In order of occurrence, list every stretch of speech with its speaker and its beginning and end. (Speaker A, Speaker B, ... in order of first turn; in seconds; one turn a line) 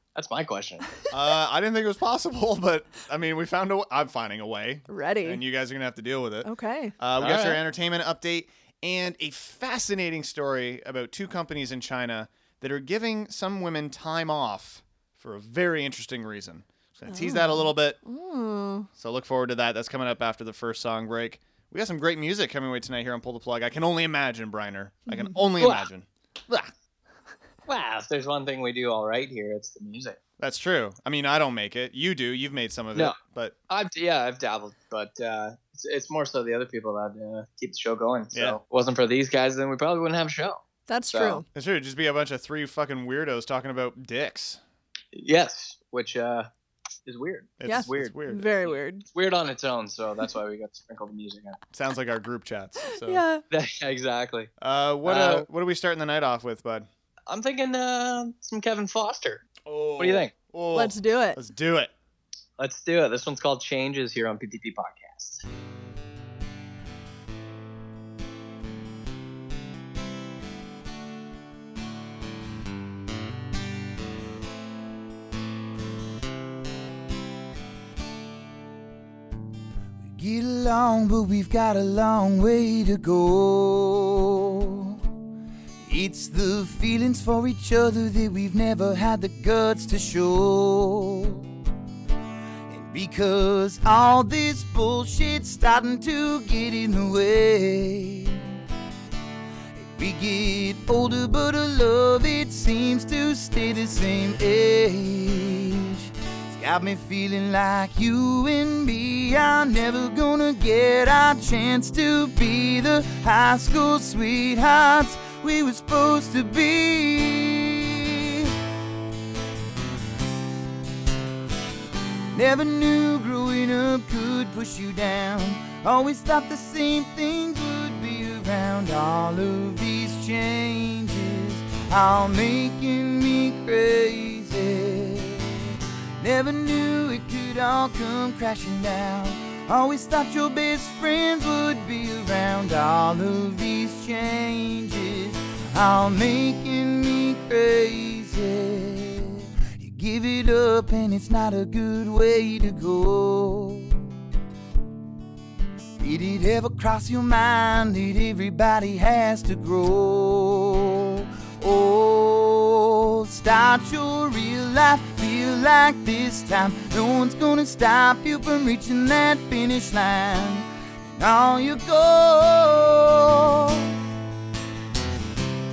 Speaker A: 0.1-0.9
Speaker B: 1.1-18.0
Speaker C: 4.9-5.4
Speaker C: 6.5-7.0
Speaker A: 7.2-7.6
Speaker C: 17.1-18.9
Speaker B: 19.0-26.7
Speaker A: 25.6-25.9
Speaker A: 27.7-30.2
Speaker B: 30.4-33.5
Speaker A: 33.7-40.6
Speaker B: 38.3-38.6
Speaker C: 40.9-41.5
Speaker A: 41.1-41.4
Speaker B: 41.5-44.6
Speaker A: 45.1-46.5
Speaker A: 47.1-51.6
Speaker B: 47.6-48.5
Speaker C: 47.7-49.1
Speaker B: 51.7-53.2
Speaker C: 53.0-53.4
Speaker A: 53.5-54.5
Speaker B: 54.6-56.9
Speaker A: 55.1-55.5
Speaker A: 57.3-60.3
Speaker B: 59.6-61.9
Speaker C: 60.8-61.4
Speaker A: 62.6-65.4
Speaker D: 80.0-85.0
Speaker D: 85.8-91.5
Speaker D: 92.7-98.4
Speaker D: 99.9-118.5
Speaker D: 122.3-135.7
Speaker D: 136.2-154.0
Speaker D: 156.0-173.9